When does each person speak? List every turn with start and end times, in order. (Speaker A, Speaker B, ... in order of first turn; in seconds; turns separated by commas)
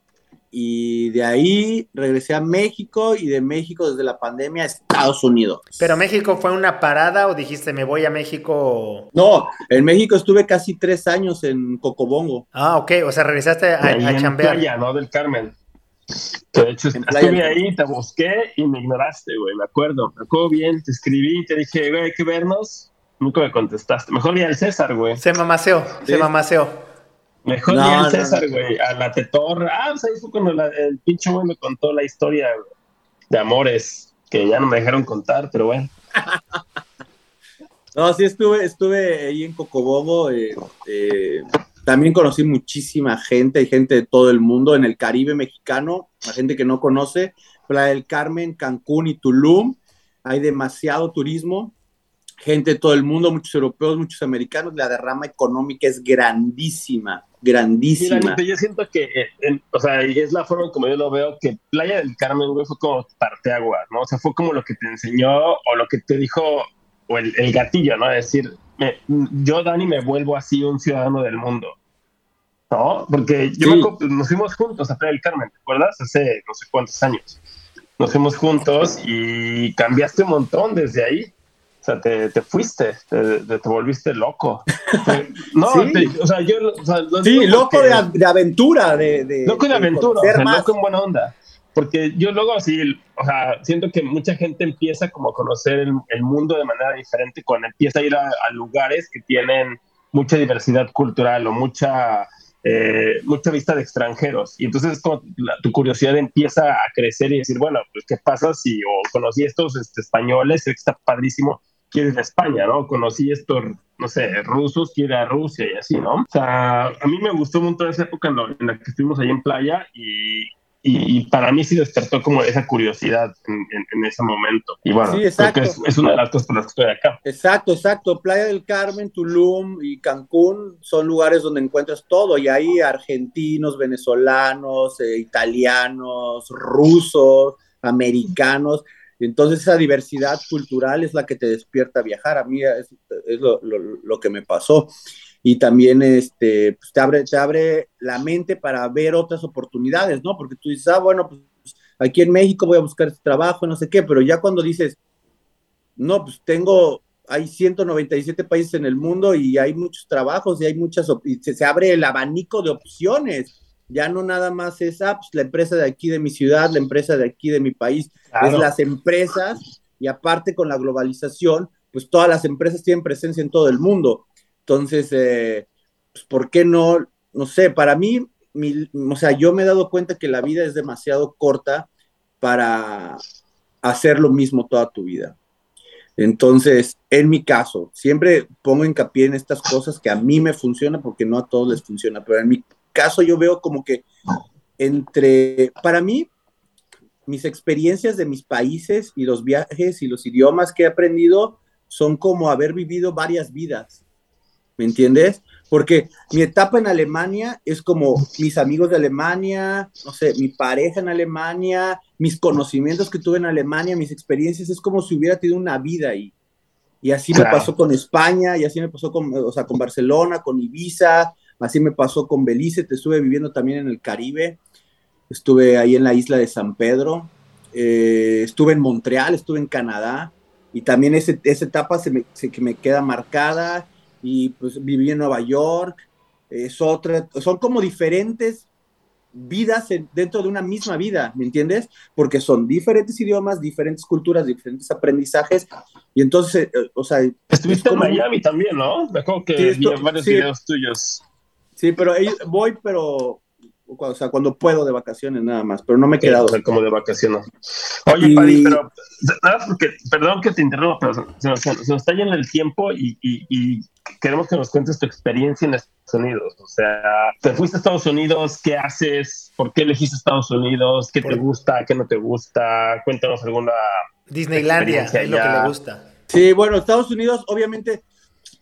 Speaker A: 0.5-5.7, Speaker B: 5.8-9.1, Speaker A: 9.1-12.4, Speaker B: 12.5-14.6, Speaker C: 13.8-15.6, Speaker C: 16.5-25.2, Speaker A: 16.9-17.6, Speaker B: 25.2-26.8, Speaker A: 26.0-26.3, Speaker C: 27.4-32.5, Speaker A: 27.7-28.4, Speaker C: 33.3-35.9, Speaker A: 37.9-51.7, Speaker A: 52.4-58.4, Speaker C: 57.9-71.7, Speaker C: 72.7-77.4, Speaker A: 73.6-73.9, Speaker C: 78.0-88.0, Speaker A: 85.7-86.1, Speaker A: 87.2-90.7, Speaker C: 89.5-127.2, Speaker A: 125.0-125.8, Speaker A: 127.2-144.9, Speaker A: 145.4-155.0, Speaker A: 156.0-181.9, Speaker C: 168.3-168.7, Speaker A: 182.4-183.2, Speaker A: 183.8-185.3, Speaker A: 186.2-194.1, Speaker A: 194.8-196.3, Speaker A: 197.2-204.0, Speaker A: 204.8-216.3, Speaker A: 217.0-224.6, Speaker C: 217.3-217.7, Speaker A: 225.3-235.9, Speaker A: 236.5-238.7, Speaker A: 239.3-248.2, Speaker C: 247.5-251.2, Speaker A: 249.6-250.5, Speaker A: 251.8-256.6, Speaker C: 256.2-257.4, Speaker C: 258.1-273.9, Speaker A: 258.2-258.8, Speaker B: 274.3-276.1, Speaker C: 274.6-275.7, Speaker A: 276.3-278.0